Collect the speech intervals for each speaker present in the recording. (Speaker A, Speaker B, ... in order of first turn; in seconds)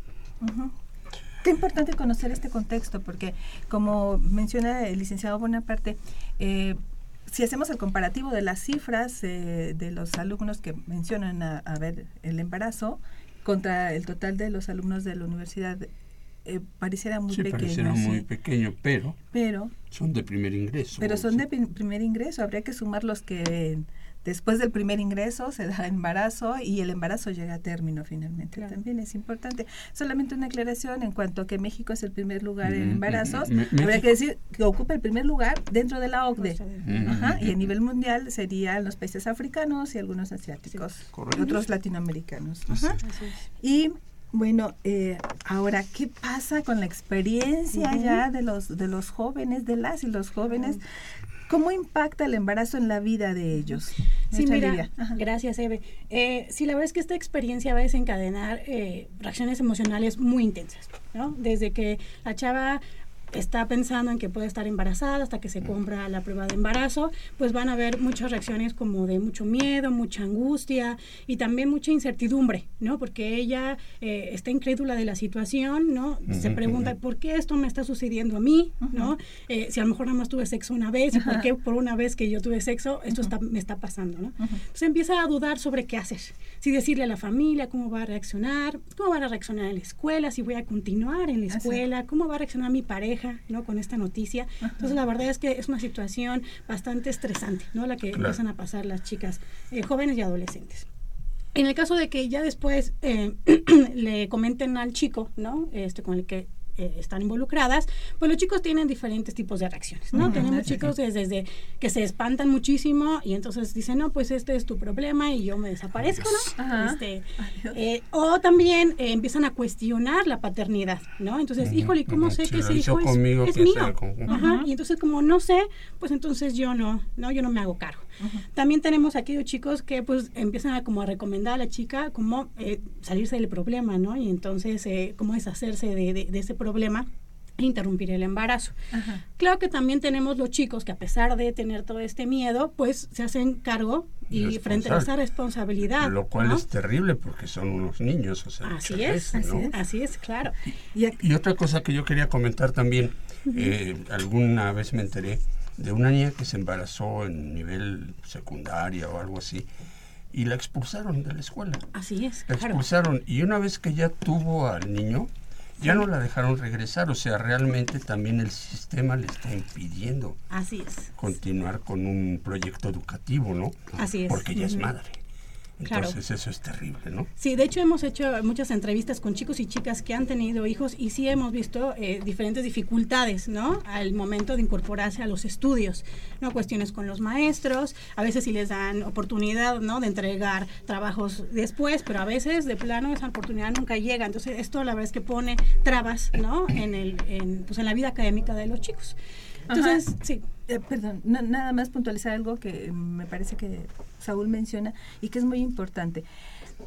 Speaker A: 0.4-0.7, 1.4-15.9, 16.4-18.3, 19.3-19.7, 21.0-43.0, 43.6-50.8, 51.5-55.2, 78.8-79.1, 81.1-81.5, 91.5-91.8, 94.6-94.9, 110.2-110.8, 116.6-117.8, 124.3-124.7, 138.9-139.2, 149.3-149.7, 199.7-200.1, 200.7-206.2
Speaker B: 17.3-19.2, 19.9-21.4, 32.6-34.1, 36.8-37.7, 41.1-41.6, 76.3-76.9, 98.1-98.4, 121.6-124.4, 144.3-145.1, 145.9-149.7, 151.2-159.7, 160.3-161.8, 162.5-170.4, 171.2-175.2, 175.8-177.3
Speaker C: 36.4-37.1, 43.0-43.4, 47.7-48.2, 50.5-50.8, 54.3-100.9, 101.5-138.8, 139.4-146.6, 148.6-150.5, 161.9-162.8, 165.8-166.1, 170.5-171.1, 174.0-174.9, 175.9-176.2, 177.4-199.2, 199.7-200.4